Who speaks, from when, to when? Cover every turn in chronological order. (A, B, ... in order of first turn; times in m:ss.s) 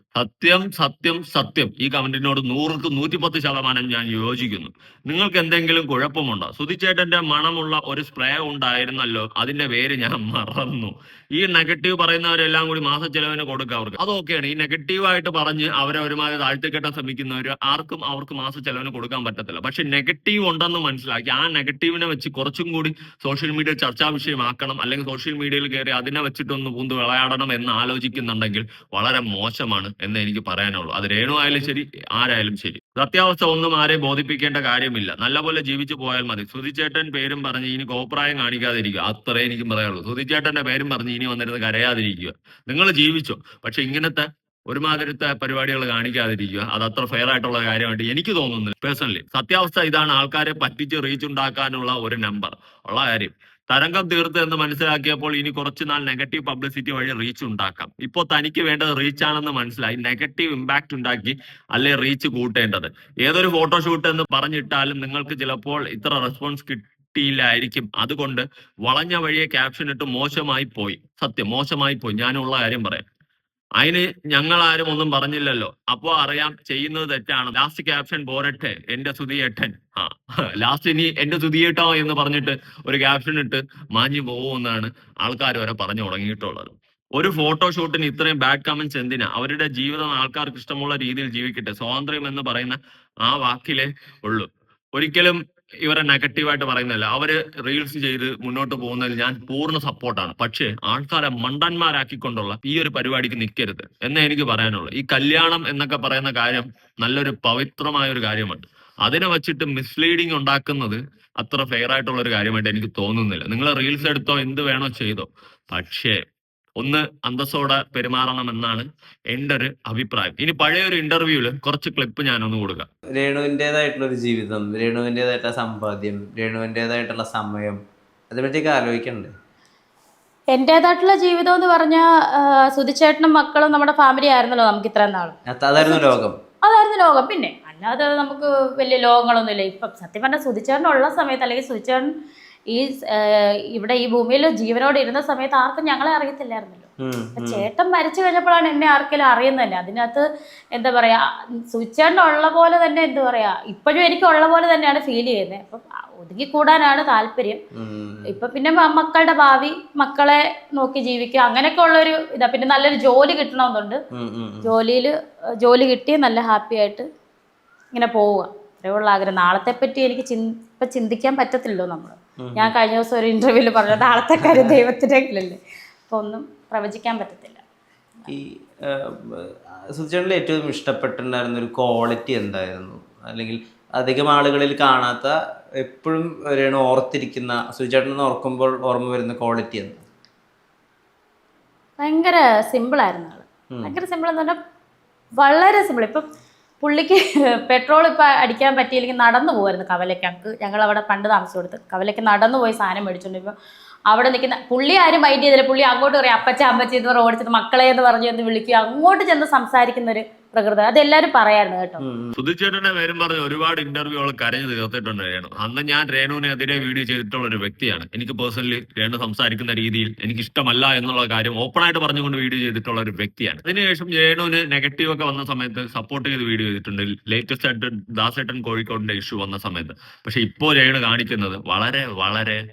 0:00.2-1:13.0 A
1:13.8-1:56.2 A
1:56.8-2:02.9 A
2:03.2-2:07.8 B
2:08.3-2:09.3 B
2:10.5-2:22.1 C
2:15.5-2:16.4 B
2:22.7-2:30.2 C
2:27.0-2:27.6 B
2:30.7-2:37.6 C
2:37.8-2:38.3 B
2:38.3-2:44.0 C
2:44.1-2:44.7 B
2:44.6-2:47.0 C
2:47.9-2:57.6 C
2:52.4-2:52.7 B
2:54.0-2:54.8 B
2:58.3-3:10.0 B
3:12.0-3:14.6 C
3:15.4-3:16.2 C
3:16.8-3:23.5 C
3:24.1-3:32.0 C
3:32.0-3:32.4 B
3:32.4-3:52.6 A